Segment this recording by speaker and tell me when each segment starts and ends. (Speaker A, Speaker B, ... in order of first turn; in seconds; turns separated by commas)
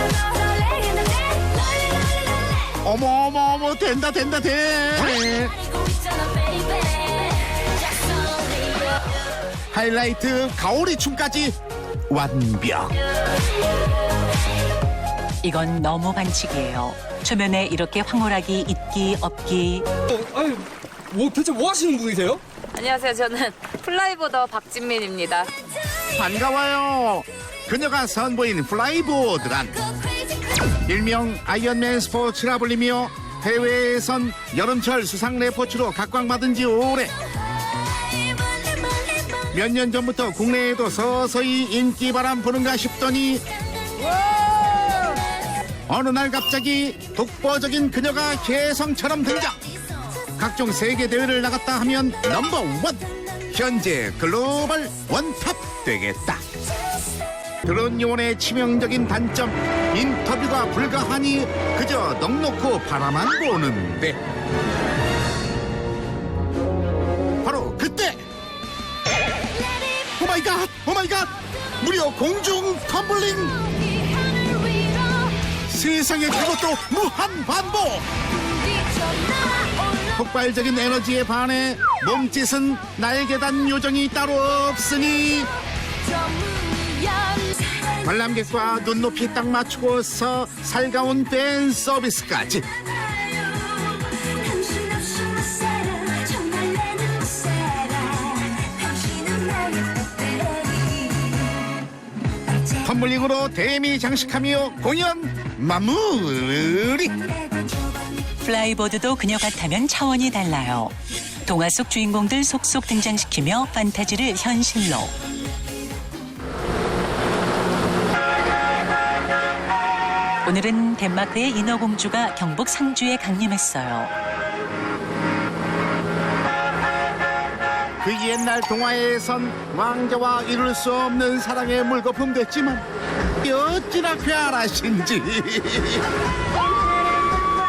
Speaker A: 2.8-5.6, Speaker A: 9.7-11.6, Speaker A: 12.1-12.9, Speaker B: 15.4-19.9, Speaker C: 20.1-22.4, Speaker D: 22.7-25.5, Speaker A: 26.1-29.8, Speaker A: 30.9-37.1, Speaker A: 39.5-43.4, Speaker A: 45.9-49.6, Speaker A: 50.3-56.4, Speaker A: 57.6-64.2, Speaker A: 67.4-68.2, Speaker A: 70.1-73.6, Speaker A: 75.7-78.0, Speaker A: 79.9-85.5, Speaker A: 87.7-92.7, Speaker A: 102.7-107.2, Speaker B: 108.4-110.9, Speaker B: 111.5-115.1, Speaker B: 120.4-124.1, Speaker A: 128.0-132.8, Speaker A: 133.4-136.1